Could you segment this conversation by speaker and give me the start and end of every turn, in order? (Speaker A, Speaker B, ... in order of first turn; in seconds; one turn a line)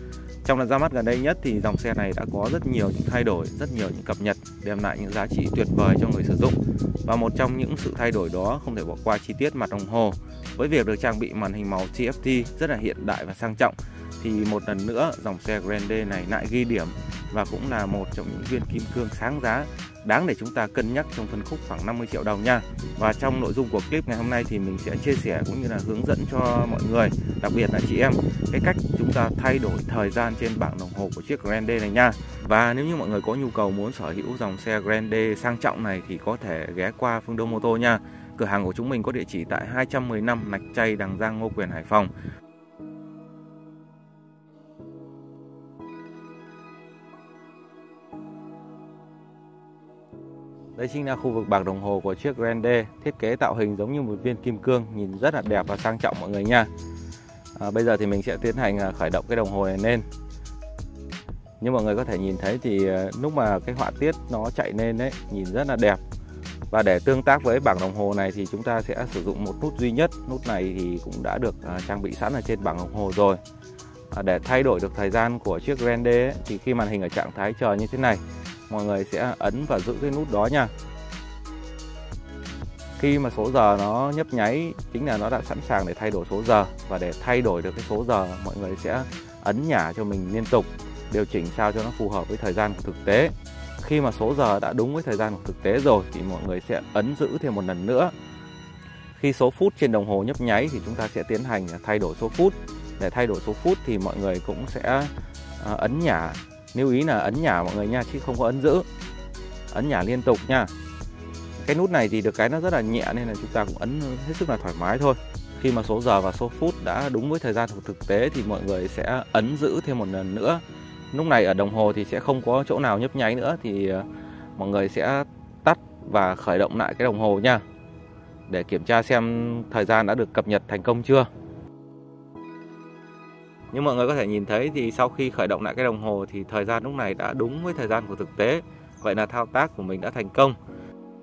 Speaker A: 0.4-42.1
Speaker A: 50.8-56.7
Speaker A: 57.5-60.0
Speaker A: 61.6-66.0
Speaker A: 66.7-73.4
Speaker A: 74.1-80.7
Speaker A: 83.0-98.1
Speaker A: 99.2-108.8
Speaker A: 109.7-110.7
Speaker A: 111.6-124.0
Speaker A: 124.6-127.6
Speaker A: 128.5-131.3
Speaker A: 133.7-140.6